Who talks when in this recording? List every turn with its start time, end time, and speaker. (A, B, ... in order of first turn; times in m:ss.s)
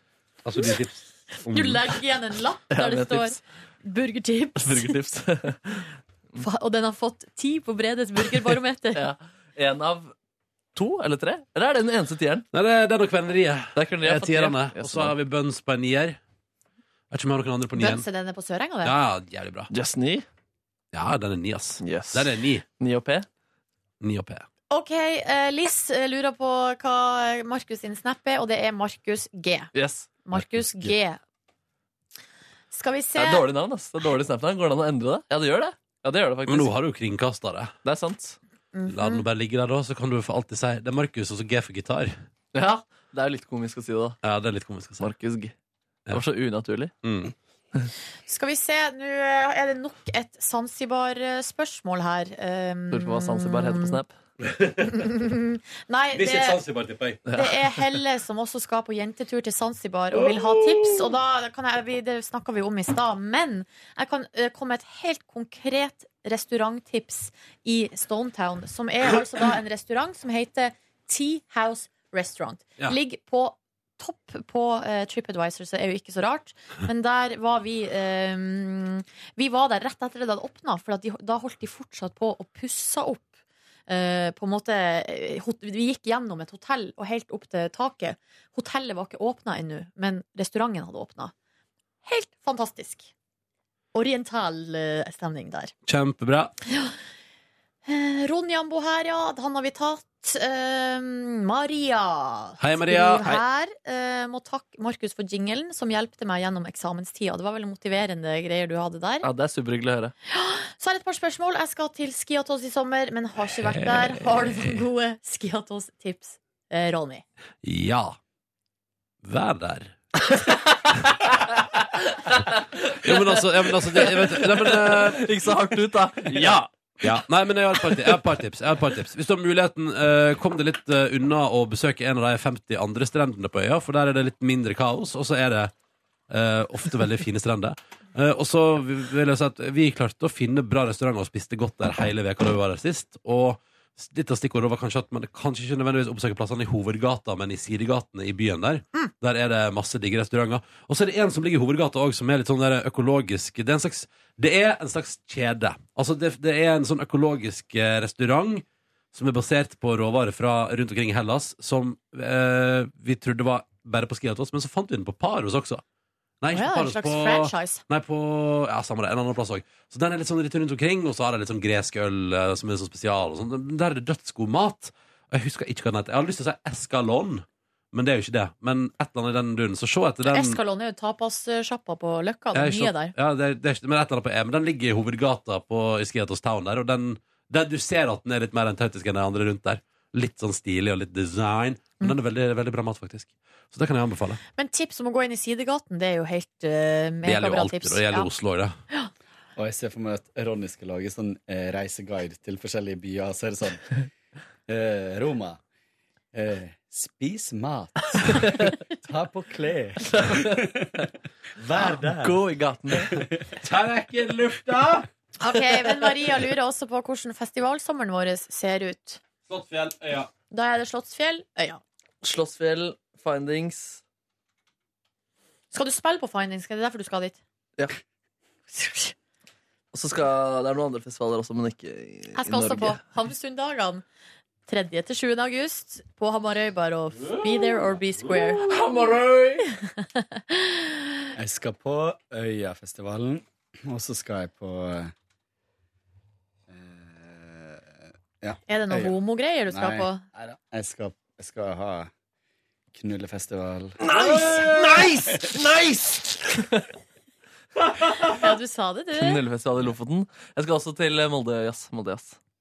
0:00.4-0:01.8 A
0:01.5-0:04.9 B
0:02.7-0:03.4 C
0:04.6-0:06.4 C
0:06.4-0:09.0 B
0:08.9-0:10.1 C
0:10.7-0:12.4 C
0:12.5-0:16.2 A
0:13.8-0:15.1 C
0:17.1-0:18.0 A
0:17.8-0:18.9 B
0:18.8-0:19.7 A
0:19.7-0:20.2 C
0:20.9-0:22.6 A
0:21.8-0:23.2 C
0:24.0-0:24.4 A
0:24.7-0:29.7 B
0:29.7-0:30.1 C
0:30.2-0:31.2 B
0:30.3-0:30.9 D
0:32.7-0:33.4 B
0:33.2-0:36.7 C
0:36.4-0:37.7 A
0:37.8-0:38.4 C
0:38.7-0:39.2 B
0:38.9-0:42.2 A
0:42.5-0:44.2 C
0:44.2-0:45.1 A
0:45.0-0:45.5 C
0:46.1-0:46.9 C
0:47.0-0:47.3 A
0:48.3-0:54.0 B
0:52.9-0:54.1 C
0:54.4-0:55.1 A
0:54.9-0:56.6 B
0:56.1-0:57.2 A
0:57.3-0:58.0 C
0:57.3-1:23.3 B
1:00.1-1:00.9 A
1:23.9-1:31.3 B
1:32.0-1:33.1 B
1:33.9-1:35.7 B
1:35.8-1:36.5 A
1:36.7-1:36.9 B
1:37.8-1:49.3 B
1:42.6-1:43.4 A
1:49.2-1:50.1 C
1:50.3-1:57.2 B
1:53.5-1:54.8 A
1:57.6-1:58.2 A
1:59.2-2:00.0 A
2:02.2-2:06.6 C
2:03.0-2:05.4 A
2:06.3-2:15.7 A
2:16.3-2:45.8 A
2:46.4-3:00.6 A
2:46.5-2:47.8 B
3:00.3-3:03.1 B
3:02.5-3:14.4 A
3:14.6-3:18.3 B
3:17.2-3:18.8 A
3:19.6-3:24.0 D
3:24.7-3:25.6 D
3:26.3-3:31.0 D
3:30.1-3:30.6 C
3:31.6-3:32.4 D
3:31.8-3:33.3 C
3:32.9-3:33.3 D
3:33.6-3:35.1 A
3:35.4-3:39.2 B
3:39.5-3:40.3 A
3:40.5-3:41.8 B
3:42.2-3:44.0 C
3:45.7-3:47.4 B
3:48.7-3:49.1 B
3:49.9-3:53.0 C
3:52.3-3:54.0 B
3:54.7-3:58.7 B
3:57.2-3:57.7 A
3:58.6-3:59.6 C
3:59.7-4:01.2 B
4:01.4-4:05.1 D
4:06.7-4:09.2 D
4:08.7-4:10.2 B
4:09.7-4:12.1 D
4:12.9-4:14.0 D
4:14.0-4:16.9 C
4:14.2-4:15.1 A
4:18.3-4:19.4 B
4:19.1-4:22.4 C